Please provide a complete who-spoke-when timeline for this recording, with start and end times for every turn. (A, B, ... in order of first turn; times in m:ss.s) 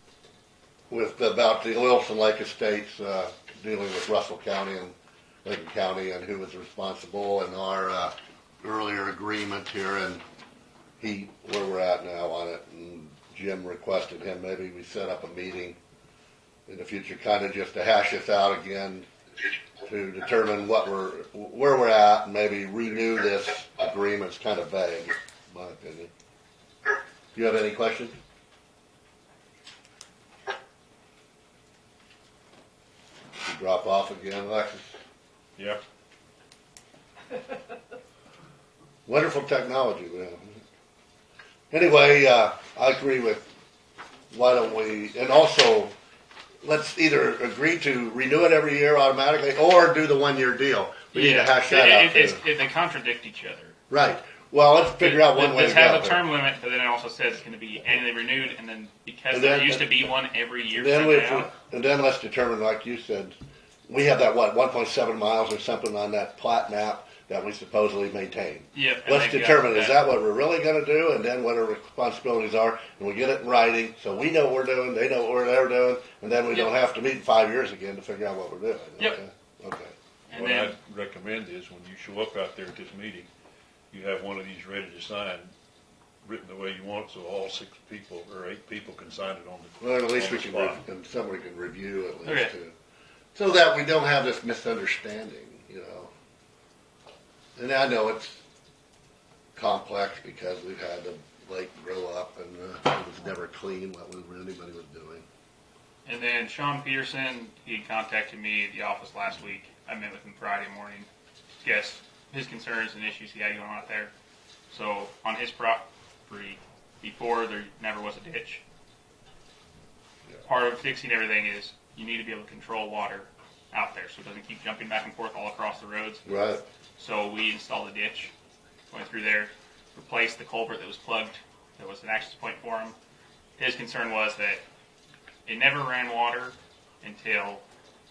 0:00.9-0:10.2 A
0:11.0-0:15.8 A
0:16.7-0:19.1 A
0:19.8-0:26.1 A
0:27.4-0:28.2 A
0:33.4-0:35.0 A
0:39.1-0:40.6 A
0:41.7-0:43.5 A
0:44.3-0:46.0 A
0:46.6-0:52.4 A
0:51.1-0:53.8 B
0:53.9-0:56.2 A
0:55.0-1:01.5 B
0:59.3-1:00.0 A
1:00.7-1:03.4 A
1:03.9-1:19.9 A
1:08.7-1:10.0 B
1:20.3-1:20.8 B
1:20.3-1:23.3 C
1:23.9-1:25.5 C
1:26.2-1:30.8 C
1:29.8-1:32.7 A
1:32.2-1:32.5 B
1:33.4-1:36.1 A
1:37.6-1:38.4 A
1:39.6-1:45.2 A
1:46.1-1:54.1 B
1:54.7-1:58.6 B
2:00.4-2:06.2 B
2:06.2-2:06.6 A
2:07.0-2:08.3 B
2:08.9-2:13.0 B
2:13.6-2:14.6 B
2:15.5-2:17.6 B